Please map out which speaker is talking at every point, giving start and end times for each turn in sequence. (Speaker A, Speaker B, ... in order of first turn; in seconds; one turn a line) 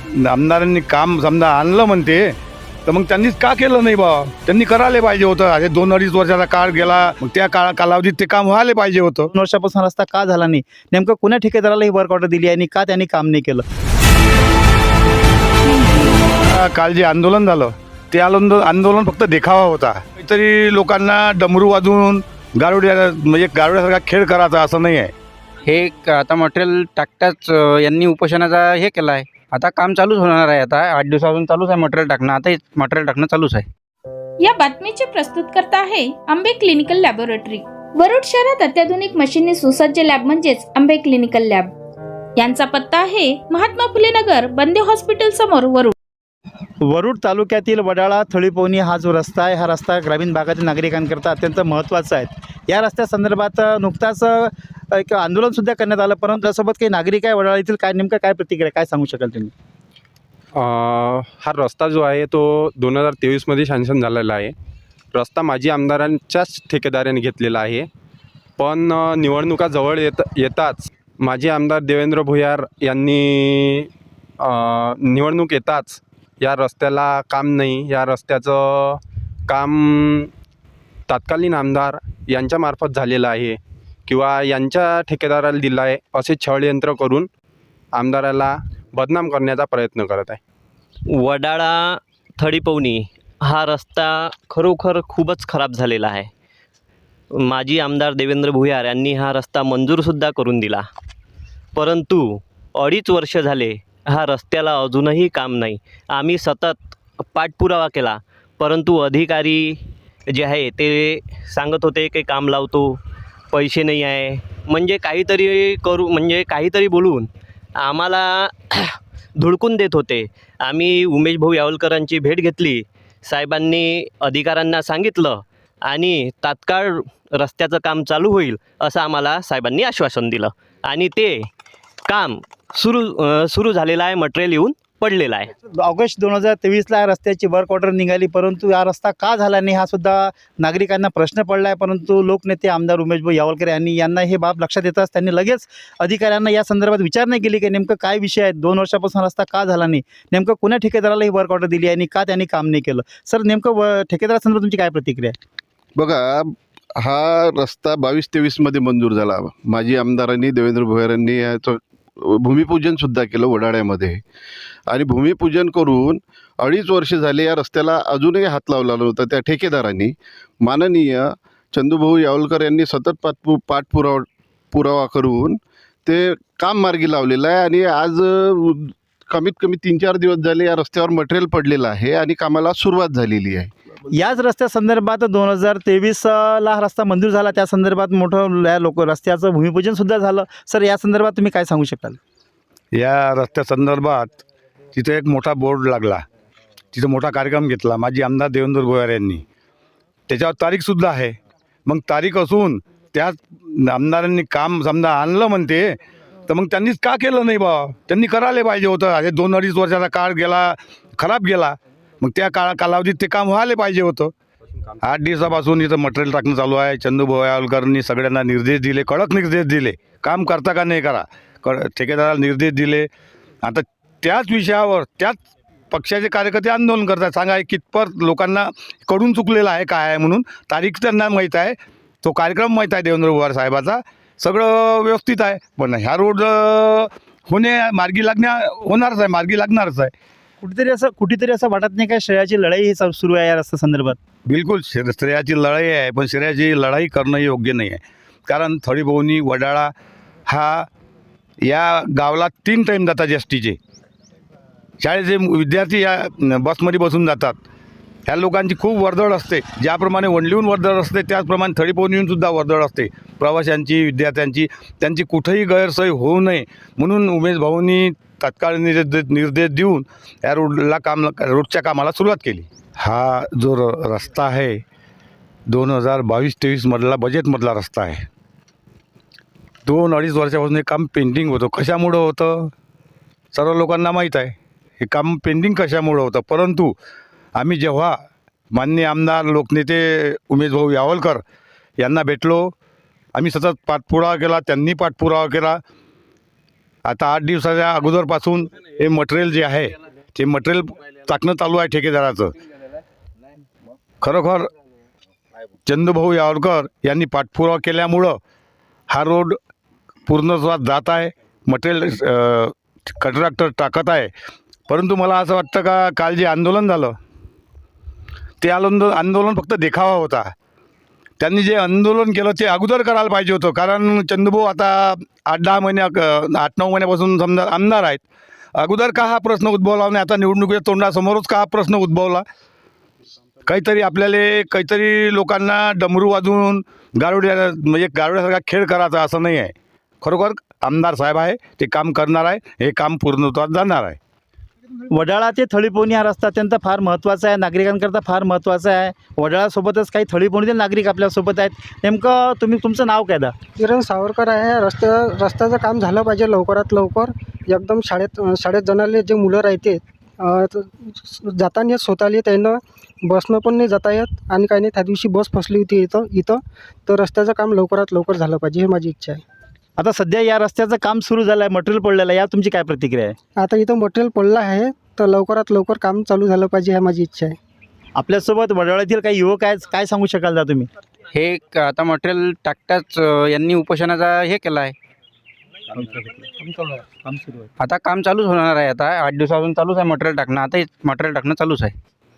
Speaker A: 0.1-9.3
Speaker B: 9.3-13.7
Speaker A: 16.4-25.1
Speaker C: 25.6-33.7
Speaker D: 34.4-41.7
Speaker D: 42.4-45.9
Speaker B: 46.8-59.5
Speaker E: 60.6-64.5
Speaker E: 65.1-67.9
Speaker E: 68.6-73.9
Speaker E: 74.4-80.3
Speaker E: 81.1-87.3
Speaker E: 87.9-90.4
Speaker F: 91.1-96.3
Speaker F: 97.4-100.9
Speaker F: 101.8-106.8
Speaker F: 107.3-109.8
Speaker F: 110.3-113.0
Speaker F: 113.5-117.3
Speaker F: 117.8-131.5
Speaker F: 132.1-135.5
Speaker B: 135.7-155.4
Speaker G: 156.0-164.2
Speaker G: 164.9-183.7
Speaker B: 184.2-192.2
Speaker A: 192.9-194.4
Speaker A: 194.9-196.2
Speaker A: 196.9-199.4
Speaker A: 200.3-214.3
Speaker A: 215.0-223.1
Speaker A: 223.6-225.4
Speaker A: 225.9-240.1
Speaker B: 240.6-244.2
Speaker A: 244.5-249.9
Speaker A: 250.5-250.9
Speaker A: 251.6-253.8
Speaker A: 255.0-257.6
Speaker A: 258.3-274.8
Speaker A: 275.7-278.3
Speaker A: 279.9-282.7
Speaker A: 283.5-286.9
Speaker A: 287.6-288.2
Speaker A: 288.7-291.4
Speaker A: 292.0-292.7
Speaker A: 293.4-295.8
Speaker A: 297.1-302.5
Speaker A: 304.2-304.7
Speaker A: 305.9-308.4
Speaker A: 309.1-309.6
Speaker A: 310.3-314.3
Speaker A: 314.9-317.1
Speaker A: 318.6-320.5
Speaker A: 321.4-328.2
Speaker A: 328.8-332.4
Speaker A: 333.6-344.2
Speaker B: 345.1-353.6
Speaker H: 353.8-369.4
Speaker B: 370.0-373.4
Speaker H: 373.6-377.6
Speaker B: 378.2-380.9
Speaker C: 381.3-384.9
Speaker B: 386.5-387.4
Speaker C: 387.8-392.0